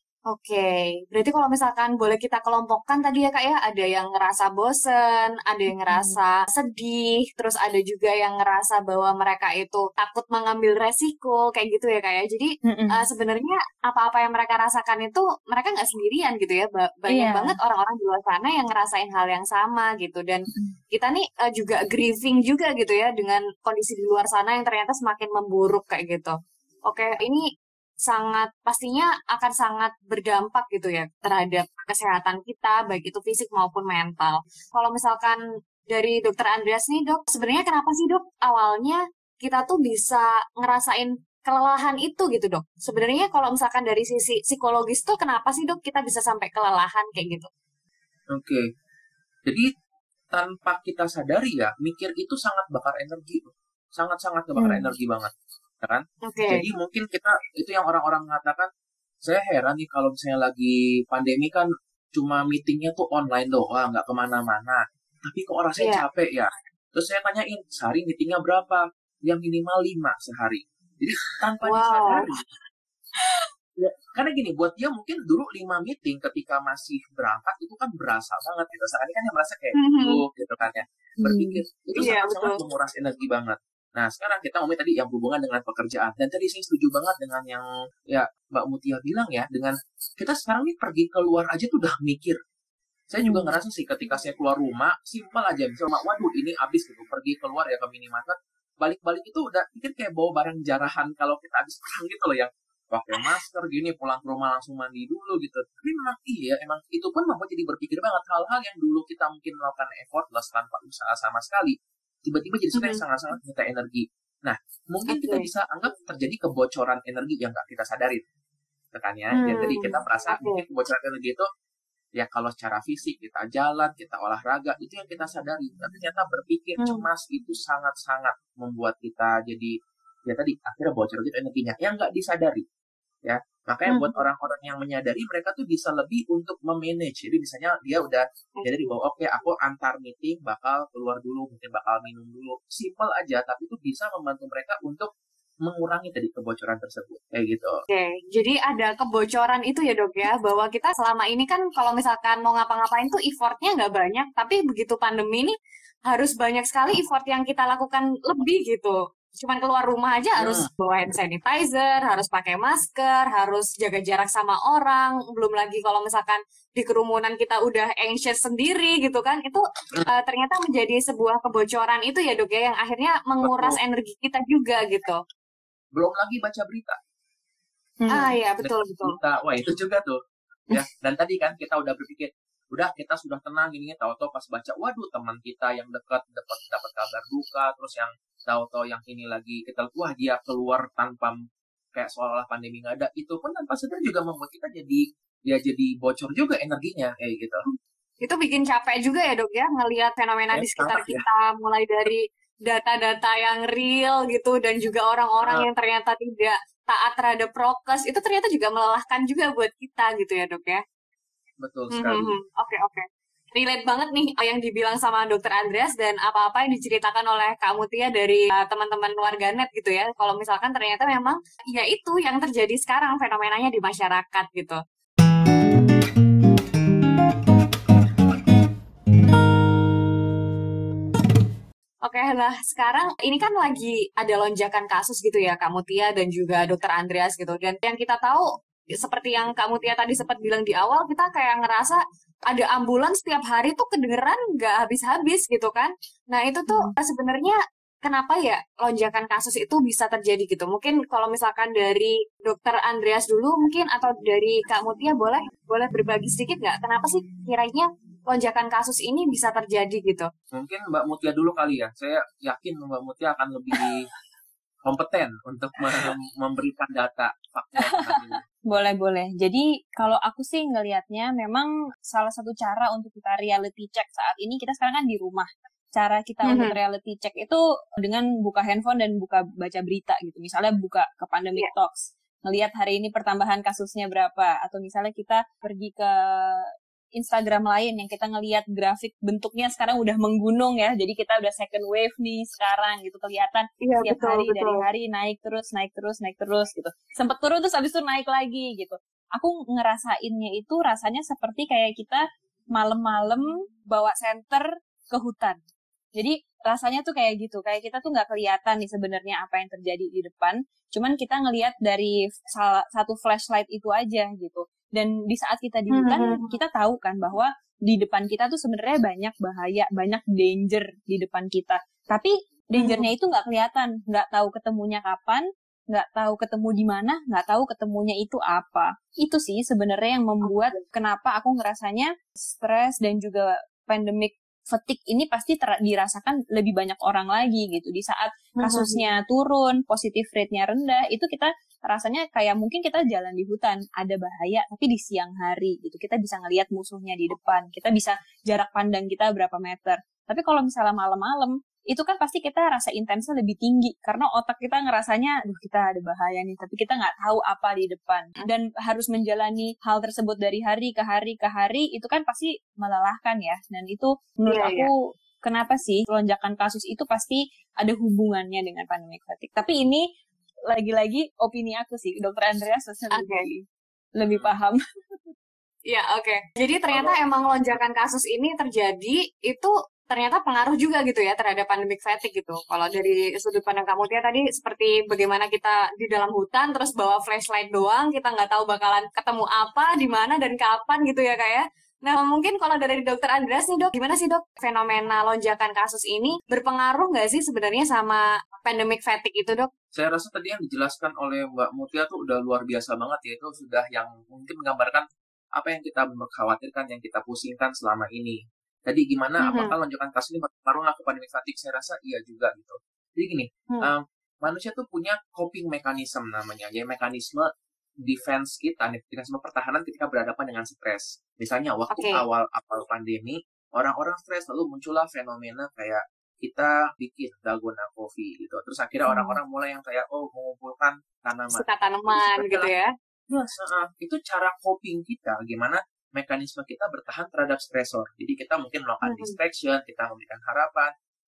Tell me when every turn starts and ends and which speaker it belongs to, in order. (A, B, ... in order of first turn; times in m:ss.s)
0:00.3-0:26.3 A
0:05.9-0:06.2 B
0:12.6-0:13.0 B
0:17.1-0:17.6 B
0:26.9-0:27.4 A
0:28.0-0:35.4 A
0:35.9-0:47.5 A
0:48.3-0:48.6 C
0:50.3-0:55.3 C
0:54.6-0:54.9 B
0:55.8-0:58.7 C
0:56.2-0:56.6 A
0:59.2-1:12.4 C
1:11.6-1:12.3 A
1:13.8-1:32.4 C
1:19.8-1:20.2 A
1:21.2-1:21.6 B
1:22.0-1:22.6 A
1:33.1-1:51.7 C
1:52.2-1:58.2 C
1:52.7-1:53.0 A
1:55.1-1:55.4 A
1:58.9-2:01.4 C
1:59.4-2:00.6 A
2:02.2-2:09.7 C
2:06.8-2:07.0 A
2:10.3-2:12.6 C
2:13.2-2:25.1 C
2:13.9-2:14.2 A
2:18.6-2:18.9 A
2:25.6-2:27.8 C
2:27.9-2:35.5 A
2:36.1-2:55.2 A
2:40.4-2:40.7 C
2:53.4-2:53.8 C
2:56.0-2:57.0 C
2:58.0-2:58.3 B
2:58.1-2:59.2 A
2:58.6-3:00.2 C
3:00.7-3:11.3 C
3:11.9-3:17.6 C
3:17.7-3:30.8 A
3:20.5-3:21.2 C
3:31.6-3:32.3 C
3:31.9-3:44.8 A
3:52.0-4:20.3 A
4:20.5-4:24.0 C
4:24.8-4:28.4 C
4:27.9-5:05.6 B
4:36.4-4:36.7 A
4:53.8-4:54.8 A
5:06.2-6:10.0 B
5:15.9-5:16.6 A
5:22.8-5:23.1 A
5:30.4-5:30.8 A
5:38.6-5:39.0 A
6:04.4-6:04.9 A
6:10.7-6:13.6 B
6:13.2-6:13.5 A
6:14.2-6:15.3 B
6:15.9-6:39.7 A
6:16.9-6:17.2 C
6:39.9-6:45.0 C
6:45.6-6:57.5 C
6:49.4-6:49.7 A
6:58.0-7:12.7 C
7:01.9-7:02.2 A
7:11.5-7:12.9 A
7:13.3-7:20.9 C
7:19.0-7:19.4 A